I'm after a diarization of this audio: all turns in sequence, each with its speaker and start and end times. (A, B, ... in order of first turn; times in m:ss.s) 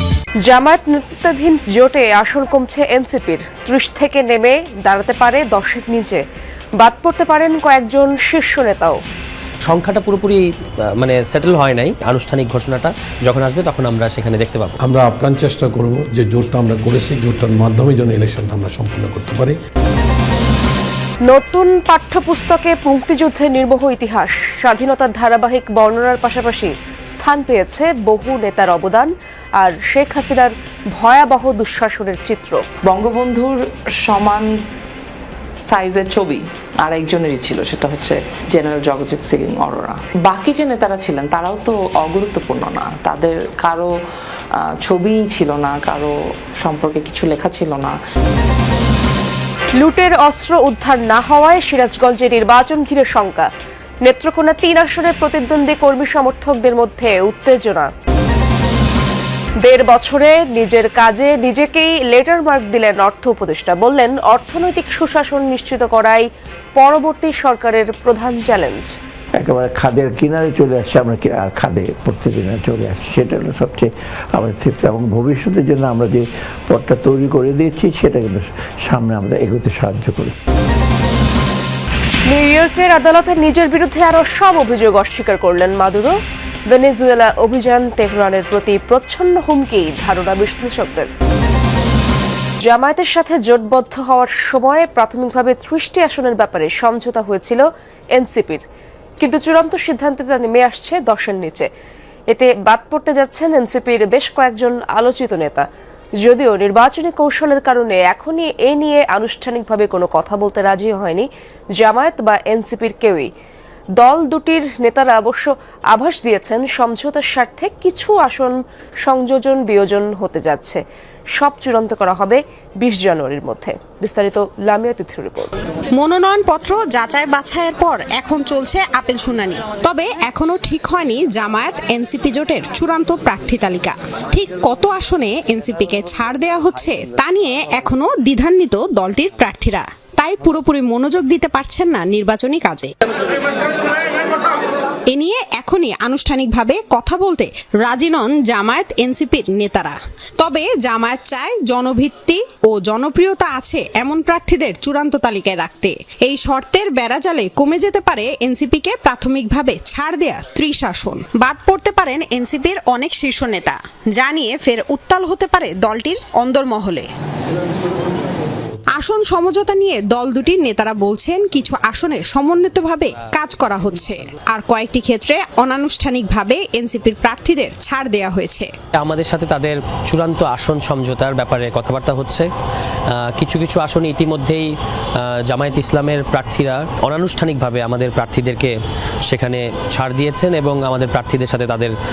0:00.4-0:06.2 A
0:06.8-0:09.0 A
0:09.7-0:10.4 B
0:11.0-0:14.8 B
0:14.8-0:19.6 C
0:21.3-0:32.6 A
0:32.9-0:34.5 D
0:35.7-0:43.9 D
0:44.6-0:48.0 D
0:49.8-0:53.5 A
0:54.0-0:57.9 A
0:59.6-1:08.9 A
1:09.4-1:20.3 E
1:22.3-1:26.2 A
1:26.7-1:31.1 A
1:32.6-1:37.6 A
1:38.2-1:38.6 A
1:39.2-1:41.7 A
1:42.3-1:45.6 A
1:46.2-1:51.3 A
1:51.8-1:53.3 A
1:54.0-2:00.8 A
2:01.4-2:05.5 A
2:06.0-2:22.9 F
2:25.1-2:47.1 F
2:49.0-2:58.7 F
2:59.0-3:02.5 B
3:03.2-3:04.7 B
3:05.5-3:08.8 B
3:09.3-3:11.9 B